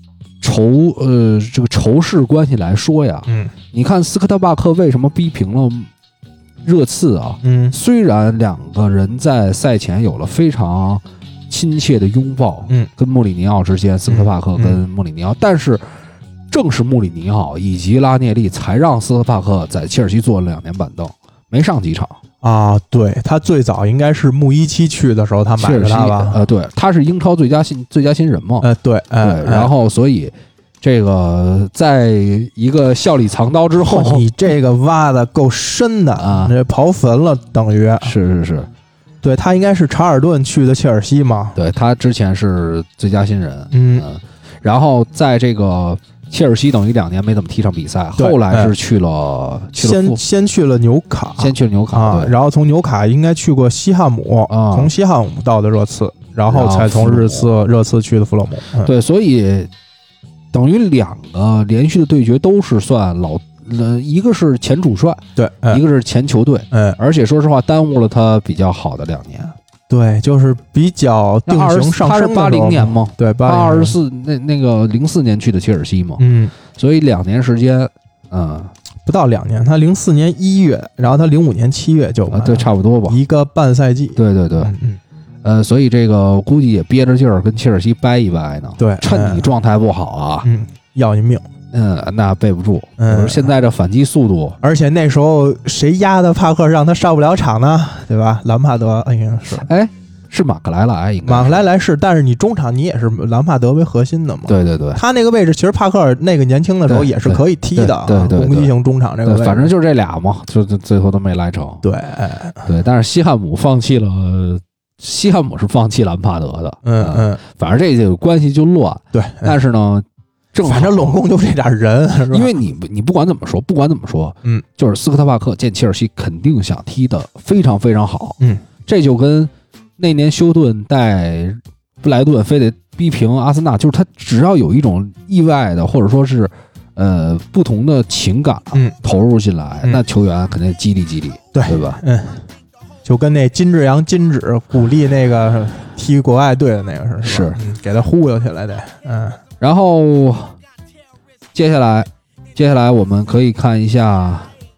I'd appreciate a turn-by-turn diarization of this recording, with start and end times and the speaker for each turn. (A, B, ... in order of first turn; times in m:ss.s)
0:00.4-0:05.9 A
0:03.3-0:03.5 B
0:06.6-0:15.8 A
0:07.4-0:07.8 B
0:14.1-0:14.8 B
0:16.5-0:22.2 A
0:22.4-0:26.4 B
0:25.6-0:28.7 A
0:28.6-0:29.7 B
0:29.2-0:34.3 A
0:33.8-0:38.1 B
0:36.2-0:36.5 A
0:38.0-0:38.7 A
0:39.2-0:41.6 B
0:41.6-0:50.2 A
0:43.7-0:44.1 B
0:48.2-0:48.8 B
0:49.8-0:58.9 B
0:51.4-0:52.4 A
0:54.5-0:54.9 A
0:56.5-0:57.5 A
0:58.8-0:59.7 A
1:00.5-1:09.6 A
1:05.4-1:05.8 B
1:06.7-1:07.0 B
1:09.9-1:14.0 B
1:11.5-1:18.7 A
1:16.2-1:16.5 B
1:19.1-1:25.0 B
1:22.3-1:23.2 A
1:24.2-1:24.7 A
1:25.4-1:30.5 A
1:28.8-1:29.5 B
1:30.4-1:31.4 B
1:31.7-1:34.6 A
1:33.0-1:33.5 B
1:34.6-1:39.7 B
1:39.6-1:41.7 A
1:41.2-1:49.7 B
1:44.5-1:45.0 A
1:46.9-1:48.7 A
1:49.2-1:51.8 A
1:51.8-1:52.7 B
1:52.6-2:01.2 A
1:56.8-1:57.4 B
1:59.1-1:59.6 B
2:00.6-2:02.5 B
2:02.3-2:22.0 A
2:21.5-2:22.4 B
2:23.0-2:29.4 B
2:27.2-2:27.6 A
2:29.6-2:30.6 A
2:31.5-2:34.5 A